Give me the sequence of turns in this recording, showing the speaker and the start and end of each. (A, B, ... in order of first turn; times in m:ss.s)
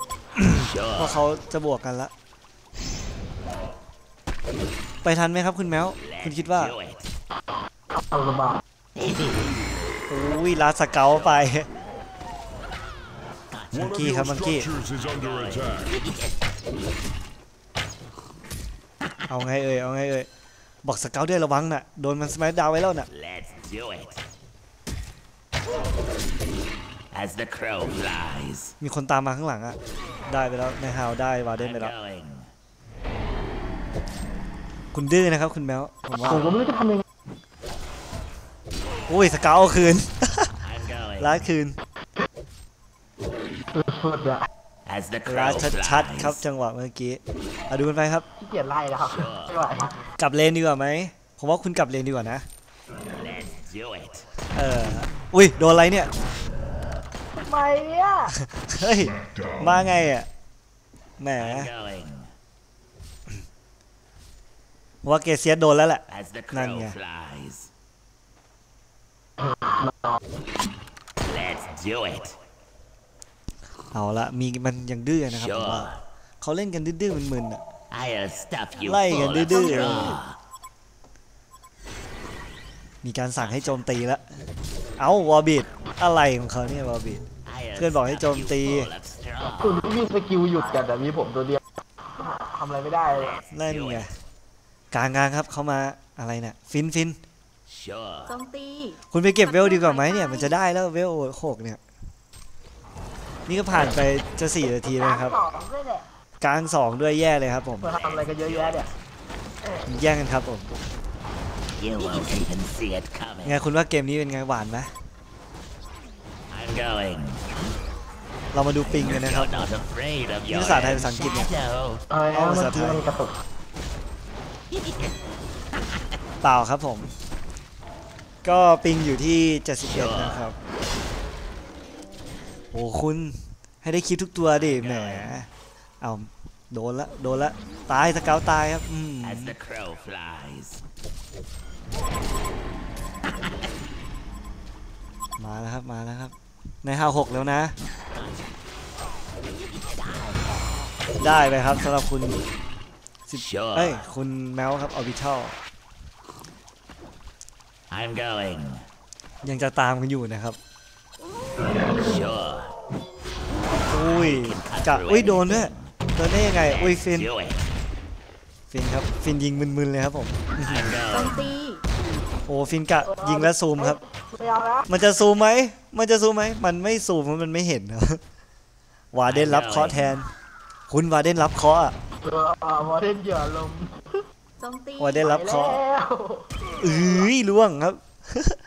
0:00.4-0:02.1 A
0:05.0-0:06.8 A
0:10.1-0:11.7 A
0:13.7-0:14.7 A
0:13.7-0:16.0 B
0:19.3-0:20.3 A
0:20.8-0:23.1 A
0:23.2-0:24.1 C
0:27.1-0:28.6 C
0:28.8-0:31.9 A
0:31.9-0:32.4 C
0:34.9-0:36.6 A
0:36.4-0:37.0 D
0:39.1-0:40.6 A
0:41.2-0:41.8 A
0:43.8-0:44.5 D
0:44.9-0:46.0 C
0:45.2-0:48.3 A
0:48.4-0:50.0 D
0:50.2-0:52.4 A
0:53.2-0:54.2 C
0:54.6-0:56.1 A
0:57.4-0:58.4 D
0:58.4-1:00.3 A
1:01.2-1:01.7 A
1:01.6-1:02.2 C
1:05.0-1:07.0 A
1:06.3-1:07.5 C
1:11.3-1:12.3 C
1:13.9-1:17.6 A
1:17.9-1:20.2 C
1:18.8-1:20.2 A
1:19.5-1:20.2 E
1:23.0-1:24.2 A
1:25.0-1:27.2 A
1:27.7-1:29.6 C
1:27.8-1:28.9 A
1:29.6-1:31.6 D
1:32.2-1:33.4 D
1:33.5-1:34.1 A
1:34.9-1:37.2 A
1:37.7-1:38.1 C
1:38.3-1:40.6 E
1:39.1-1:41.8 A
1:43.5-1:45.5 A
1:45.2-1:46.0 D
1:46.4-1:48.0 A
1:47.9-1:48.8 D
1:49.9-1:50.7 A
1:51.8-1:53.3 C
1:53.4-1:54.9 A
1:56.6-1:57.3 C
1:58.5-1:59.7 A
1:59.2-2:01.0 C
2:00.5-2:01.5 A
2:02.1-2:03.3 D
2:02.3-2:03.1 A
2:06.4-2:07.1 A
2:08.4-2:10.6 A
2:12.7-2:15.5 A
2:16.0-2:19.6 A
2:19.5-2:20.5 C
2:25.4-2:27.8 A
2:31.2-2:32.4 A
2:33.3-2:35.6 A
2:38.0-2:38.6 C
2:39.4-2:40.6 A
2:42.1-2:42.5 C
2:43.9-2:47.3 A
2:44.6-2:45.7 C
2:48.7-2:51.0 A
2:50.8-2:51.3 C
2:51.1-2:51.8 E
2:52.5-2:54.0 A
2:53.9-2:54.9 D
2:54.9-2:58.2 A
2:59.1-3:00.3 A
2:59.4-2:59.9 C
3:00.9-3:02.0 A
3:02.2-3:04.2 D
3:04.6-3:05.3 E
3:05.0-3:05.8 A
3:05.2-3:06.7 D
3:06.8-3:08.6 A